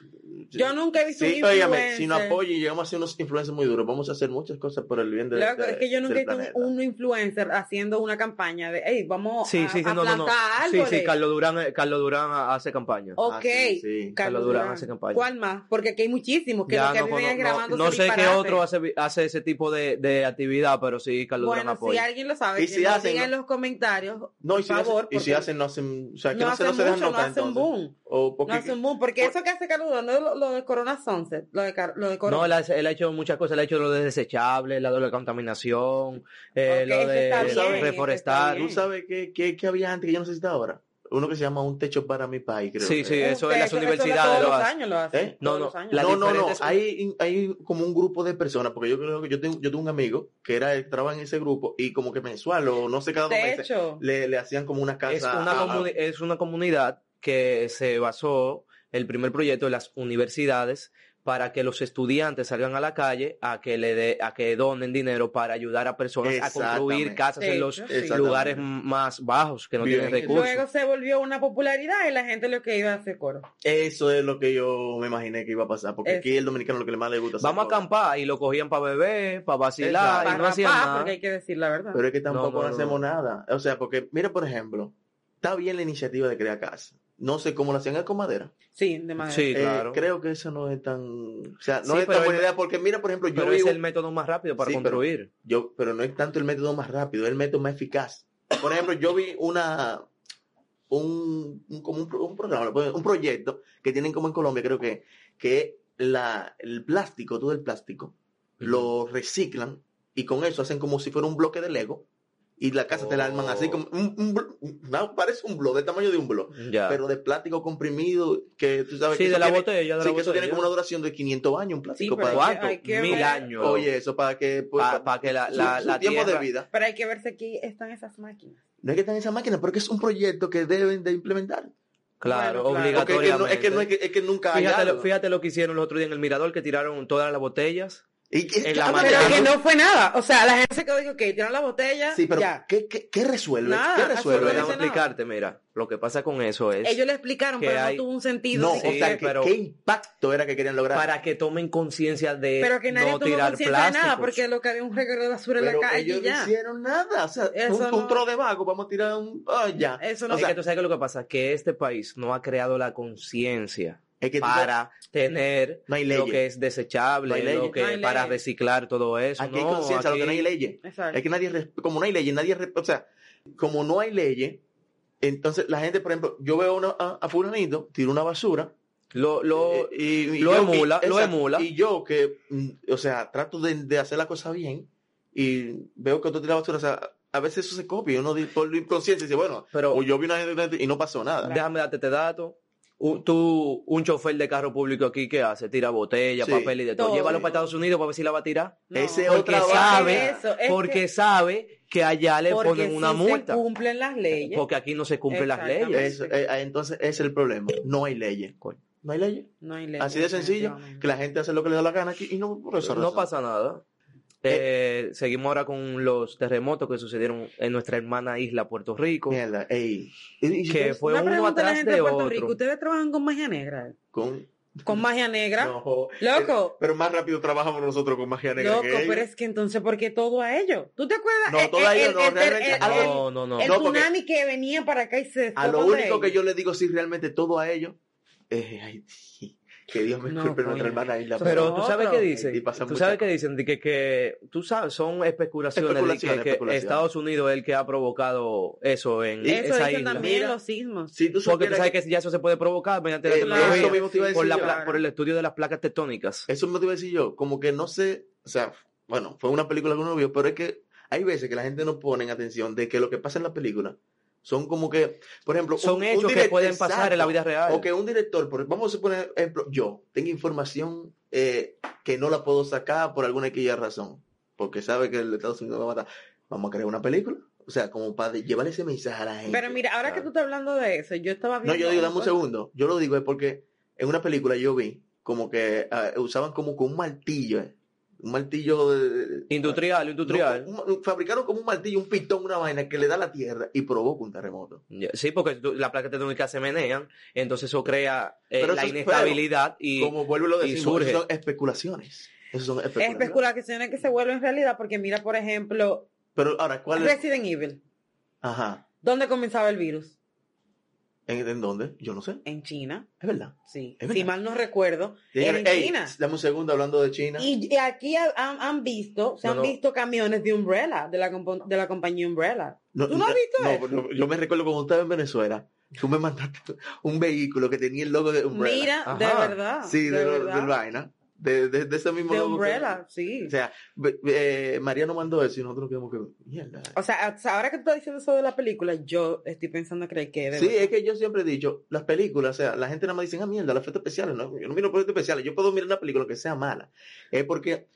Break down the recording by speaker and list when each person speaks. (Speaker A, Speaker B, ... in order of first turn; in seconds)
Speaker A: 0.3-6.7, 13.2-14.2, 22.6-23.3, 24.4-29.3, 37.4-37.9, 38.6-43.2, 45.9-55.9, 66.2-67.2, 67.9-68.6, 69.8-70.5, 73.6-77.8, 79.8-80.4, 81.9-88.5, 89.5-93.8, 94.6-100.1, 100.9-112.0, 112.6-122.5, 123.0-126.7, 128.8-131.7, 132.9-135.1, 138.3-139.5, 142.1-144.8, 148.5-151.1, 155.6-160.5, 164.2-164.7, 165.9-166.4, 167.2-167.8, 169.4-174.6, 175.2-178.7, 179.5-191.6, 196.4-197.5, 198.9-200.4, 205.9-213.3, 219.3-221.0, 224.1-225.0, 225.6-229.3, 231.5-234.1, 235.6-238.0, 238.5-243.3, 245.8-247.0, 249.4-250.6, 251.1-251.9, 253.2-254.8, 256.5-280.2, 281.6-294.8, 298.6-299.4, 299.9-303.4, 306.4-307.2, 308.4-308.8, 311.3-312.4, 313.2-314.3, 315.3-317.5, 322.9-328.9, 329.8-336.9, 340.5-347.9
Speaker B: 0.5-2.4, 5.3-11.1, 13.2-18.6, 21.4-25.5, 26.3-32.5, 36.7-38.8, 43.2-46.3, 53.3-54.0, 67.4-68.2, 70.2-73.5, 76.0-76.5, 80.2-82.0, 88.7-89.5, 122.0-123.5, 126.7-128.6, 132.2-133.2, 138.9-142.6, 143.6-145.1, 146.8-149.2, 152.6-156.5, 157.5-158.2, 160.0-160.5, 167.7-168.4, 170.8-171.2, 197.0-197.5, 198.9-201.0, 202.5-204.6, 205.3-206.3, 209.6-211.1, 220.9-224.0, 224.8-226.8, 228.6-236.3, 240.3-242.3, 249.5-251.1, 253.4-255.0, 279.5-282.3, 303.0-306.1, 306.9-307.8, 309.0-310.1, 312.4-313.1, 313.7-316.1, 317.4-323.9, 328.5-330.7, 332.3-333.5, 336.9-340.9
Speaker C: 9.4-13.2, 14.2-15.2, 16.7-22.0, 32.3-38.7, 42.8-44.7, 45.4-46.8, 55.1-70.6, 77.4-81.1, 82.3-83.0, 89.2-90.0, 91.8-92.5, 93.3-95.3, 108.6-108.9, 112.9-113.8, 116.5-117.0, 119.1-120.7, 122.3-123.9, 124.8-126.5, 132.2-133.9, 134.5-138.0, 138.6-139.5, 144.3-147.0, 147.6-148.0, 148.7-149.5, 150.9-154.4, 160.3-170.5, 179.1-181.7, 189.7-190.0, 191.4-203.6, 204.3-206.1, 212.8-213.8, 214.4-219.4, 220.7-222.6, 232.7-233.7, 241.4-250.3, 251.4-256.5, 265.8-267.9, 289.5-290.7, 294.9-301.2, 319.4-319.8, 329.1-329.6